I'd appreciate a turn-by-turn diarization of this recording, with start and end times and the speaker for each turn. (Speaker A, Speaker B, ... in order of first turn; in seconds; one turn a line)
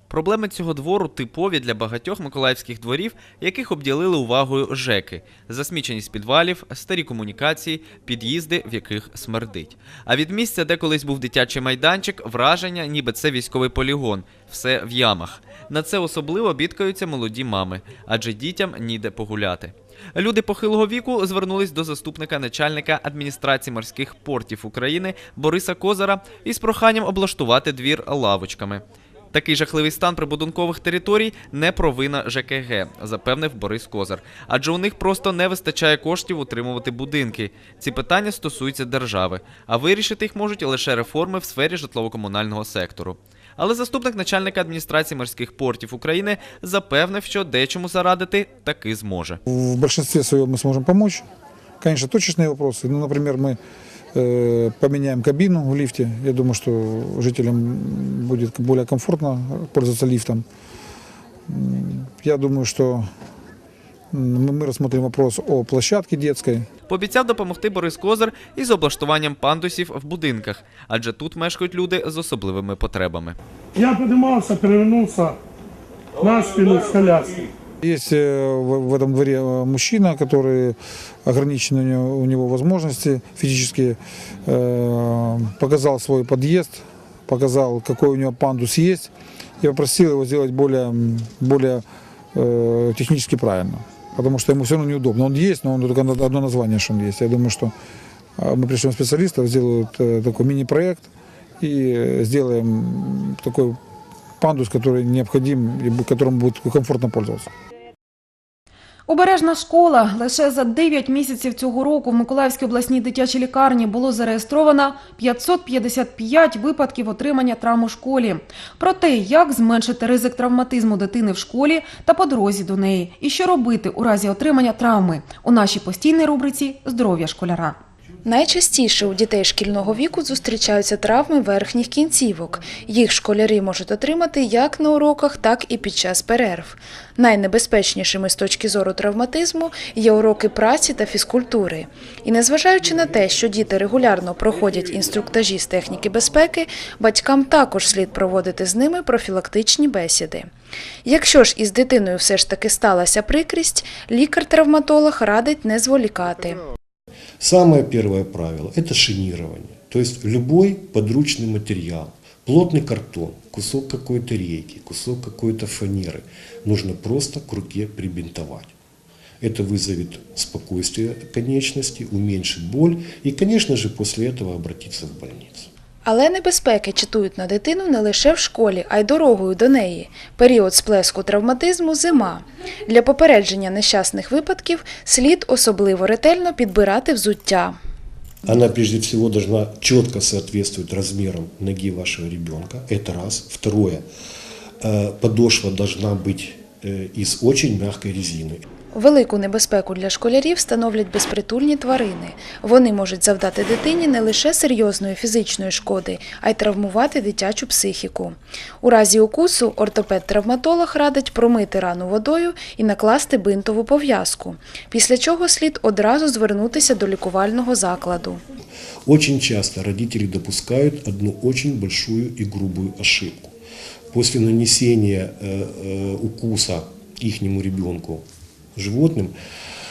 Speaker A: 0.1-49.4
Speaker B: 49.5-51.2
Speaker B: 51.8-53.6
Speaker B: 54.1-60.5
Speaker B: 61.5-63.1
Speaker B: 64.1-66.7
Speaker A: 66.9-73.4
Speaker C: 73.8-75.4
Speaker C: 76.2-77.4
Speaker B: 77.8-97.7
Speaker B: 98.4-103.8
Speaker B: 104.4-107.5
Speaker D: 109.1-127.8
Speaker E: 128.2-150.5
Speaker E: 151.1-156.6
Speaker F: 157.4-168.7
Speaker F: 169.4-175.7
Speaker E: 176.1-187.8
Speaker F: 188.4-194.1
Speaker F: 194.8-198.6
Speaker E: 198.9-218.4
Speaker F: 219.1-223.5
Speaker F: 224.1-228.2
Speaker F: 228.8-229.3